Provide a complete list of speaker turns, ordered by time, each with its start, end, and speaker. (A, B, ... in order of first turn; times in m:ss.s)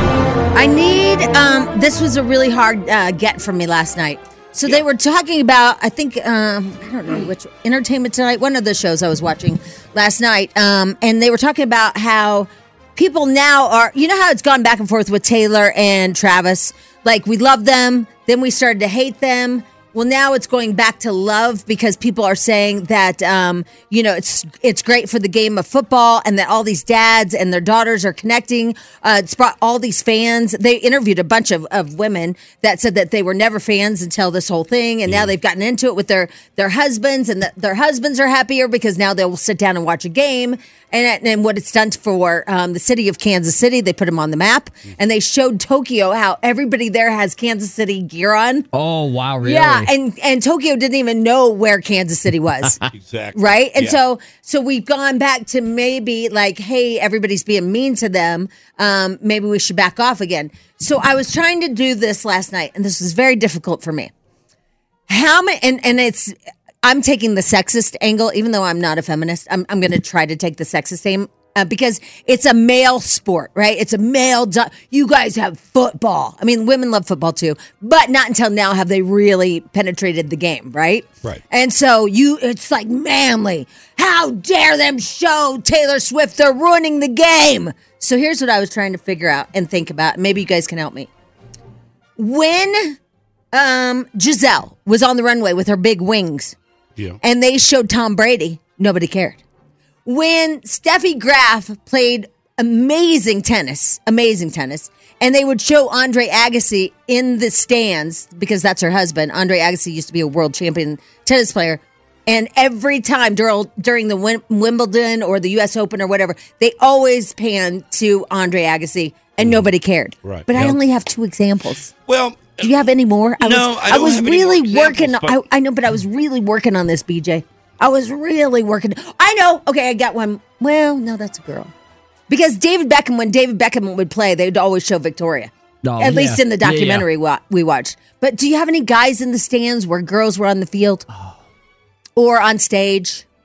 0:00.6-0:48.7 A
0:35.1-0:35.3 B
0:48.7-0:49.9 C
0:49.4-0:52.8 A
0:52.9-0:54.0 B
0:53.4-1:04.1 A
1:05.1-1:31.1 A
1:32.2-1:33.0 A
1:33.5-1:36.6 A
1:37.2-1:39.4 A
1:40.1-2:01.9 A
1:59.4-1:59.7 B
2:00.2-2:00.8 B
2:02.1-2:02.9 B
2:02.6-2:11.7 A
2:03.4-2:05.4 B
2:12.3-2:21.1 A
2:15.8-2:17.1 C
2:22.2-2:23.2 A